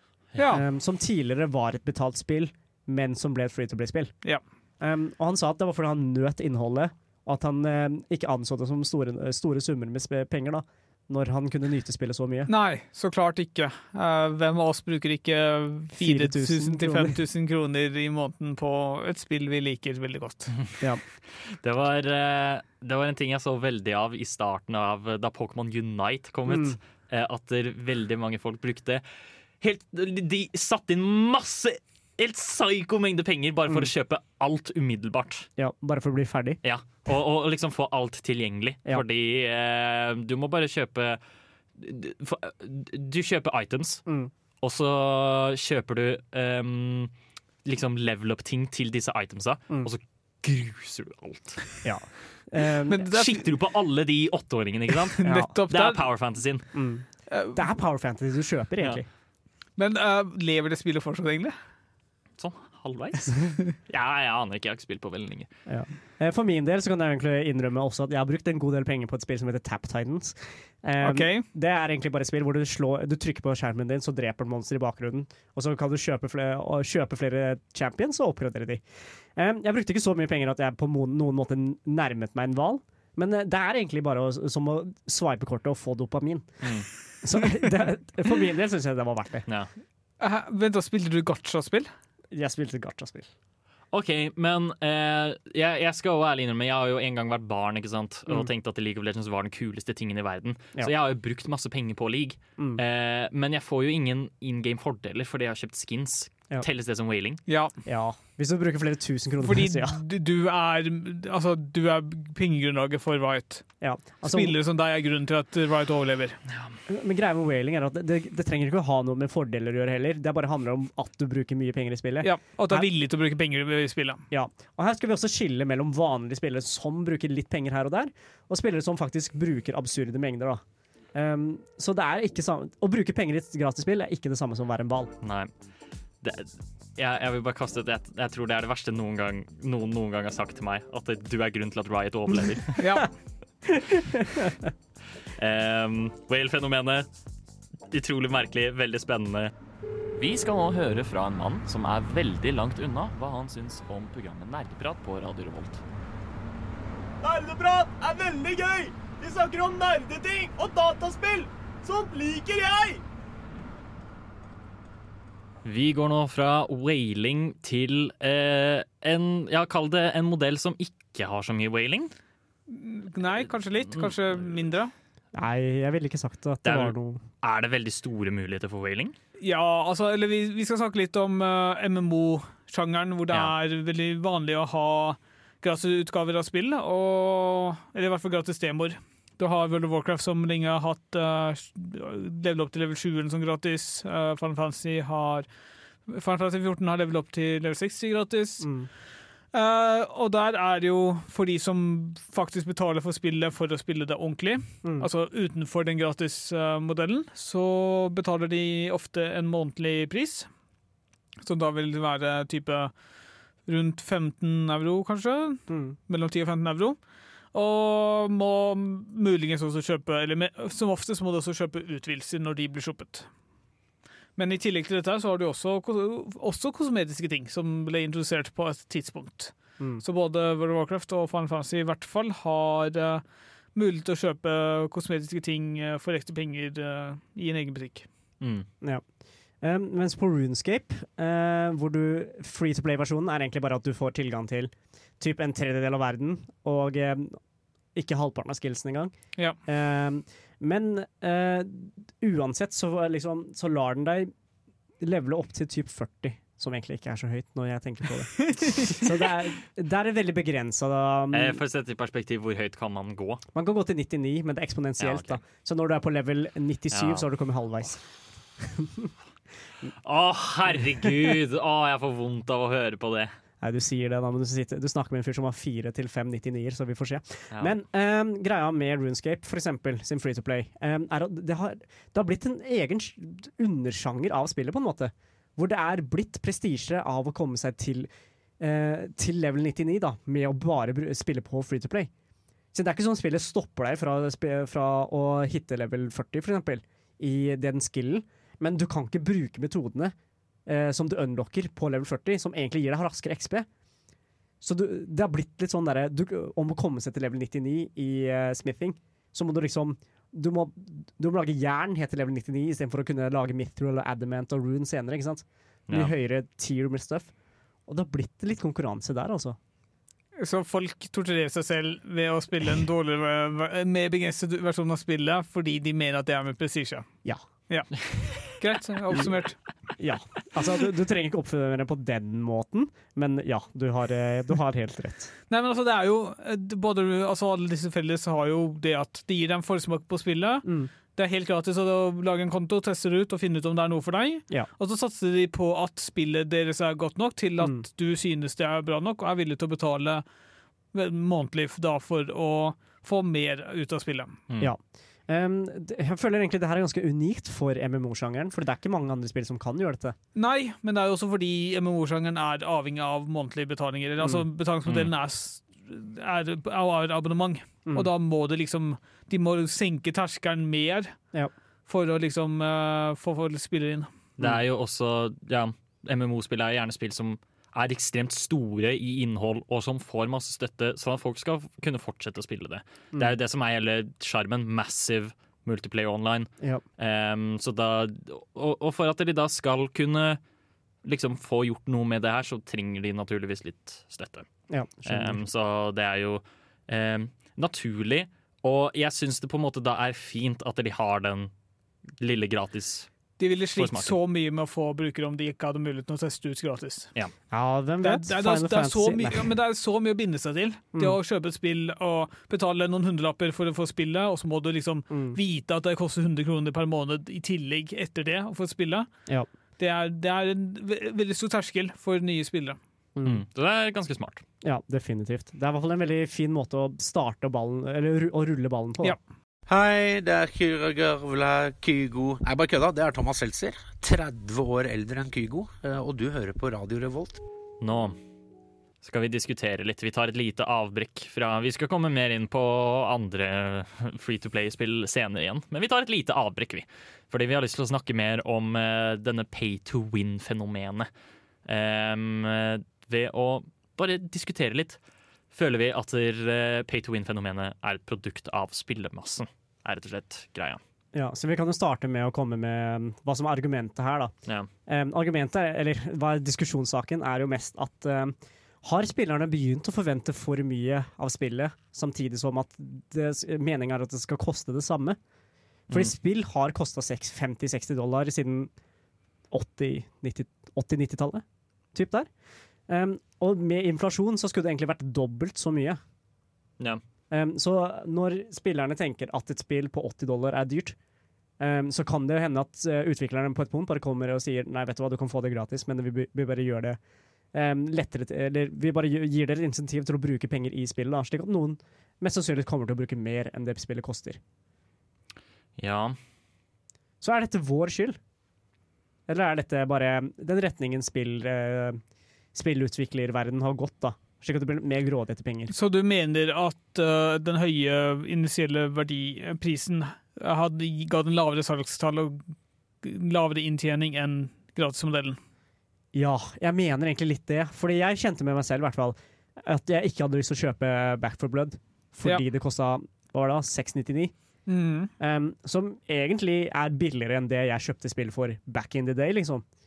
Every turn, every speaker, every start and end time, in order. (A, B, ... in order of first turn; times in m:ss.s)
0:00.4-0:00.6 A
0:00.5-0:04.2 B
0:04.8-0:12.5 B
0:12.5-0:20.5 A
0:16.0-0:17.2 B
0:21.5-0:29.0 C
0:26.5-0:26.8 B
0:29.6-0:35.5 C
0:35.6-0:36.6 B
0:36.6-0:41.2 C
0:41.8-0:44.0 C
0:44.1-0:44.3 B
0:44.6-0:47.1 C
0:47.6-0:51.9 C
0:51.8-0:53.0 B
0:52.9-0:53.5 A
0:53.0-0:56.7 C
0:55.2-0:56.0 A
0:55.2-0:55.6 B
0:56.7-0:59.1 B
0:57.3-0:57.6 A
0:59.8-1:01.6 A
1:02.4-1:05.5 C
1:05.7-1:26.7 B
1:11.0-1:11.5 A
1:26.6-1:26.9 C
1:27.2-1:29.5 B
1:30.2-1:31.9 A
1:32.3-1:33.3 B
1:33.9-1:47.4 C
1:42.6-1:42.8 B
1:47.5-1:47.7 A
1:47.8-1:50.0 B
1:49.4-1:56.4 A
1:53.8-1:54.6 B
1:56.5-1:56.8 C
1:56.9-2:02.9 B
2:02.2-2:04.2 A
2:04.3-2:10.6 B
2:11.1-2:15.1 B
2:15.2-2:15.5 C
2:16.2-2:22.8 C
2:22.8-2:23.1 A
2:23.8-2:24.7 B
2:25.4-2:27.1 C
2:27.9-2:29.5 C
2:30.2-2:35.8 C
2:37.2-2:43.0 D
2:45.6-2:52.1 C
2:52.7-2:54.9 A
2:53.9-2:54.4 C
2:55.3-2:57.2 B
2:56.6-2:59.2 C
2:59.4-3:15.5 A
3:16.1-3:18.8 A
3:18.6-3:18.9 B
3:19.5-3:30.5 A
3:24.8-3:25.1 B
3:31.4-3:32.9 A
3:33.7-3:37.0 A
3:35.7-3:36.0 B
3:37.5-3:43.3 A
3:44.4-3:53.2 A
3:53.8-3:58.1 A
3:58.4-3:58.7 C
3:58.8-3:59.1 B
3:59.6-4:07.4 B
4:08.0-4:14.3 B
4:15.0-4:21.6 B
4:21.3-4:23.4 C
4:23.5-4:29.1 B
4:25.0-4:25.4 C
4:26.9-4:27.2 C
4:30.0-4:33.4 C
4:33.6-4:52.1 B
4:52.7-5:00.2 B
5:00.7-5:03.7 B
5:04.6-5:17.3 B
5:15.9-5:16.2 C
5:17.9-5:19.6 B
5:20.4-5:27.1 A
5:28.4-5:29.6 A
5:30.0-5:35.3 B
5:35.5-5:50.2 A
5:40.6-5:40.9 B
5:47.6-5:47.8 B
5:50.9-5:54.4 A
5:54.6-6:00.2 B
6:00.4-6:11.2 A
6:11.9-6:14.1 A
6:14.4-6:30.4 C
6:31.0-6:34.5 C
6:34.7-6:35.4 B
6:35.1-6:41.5 C
6:42.2-6:43.1 C
6:43.4-6:47.1 A
6:43.8-6:44.2 C
6:47.5-6:49.5 B
6:48.0-6:59.1 A
6:55.1-6:55.4 B
6:59.8-7:02.8 A
7:03.2-7:03.4 B
7:03.2-7:04.4 C
7:04.6-7:09.2 B
7:09.7-7:17.4 E
7:17.8-7:18.2 C
7:19.0-7:31.1 C
7:31.7-7:35.0 C
7:35.5-7:40.8 C
7:41.1-7:44.3 B
7:44.9-7:55.2 B
7:55.9-7:58.7 B
7:59.5-8:02.3 B
8:02.9-8:06.0 B
8:07.3-8:11.0 B
8:11.6-8:17.0 B
8:17.5-8:24.4 B
8:25.8-8:26.2 C
8:27.2-8:28.2 B
8:29.3-8:32.0 B
8:32.5-8:35.7 B
8:35.7-8:42.4 A
8:43.0-8:45.4 A
8:46.1-8:54.4 B
8:54.7-8:55.1 A
8:55.2-8:59.6 B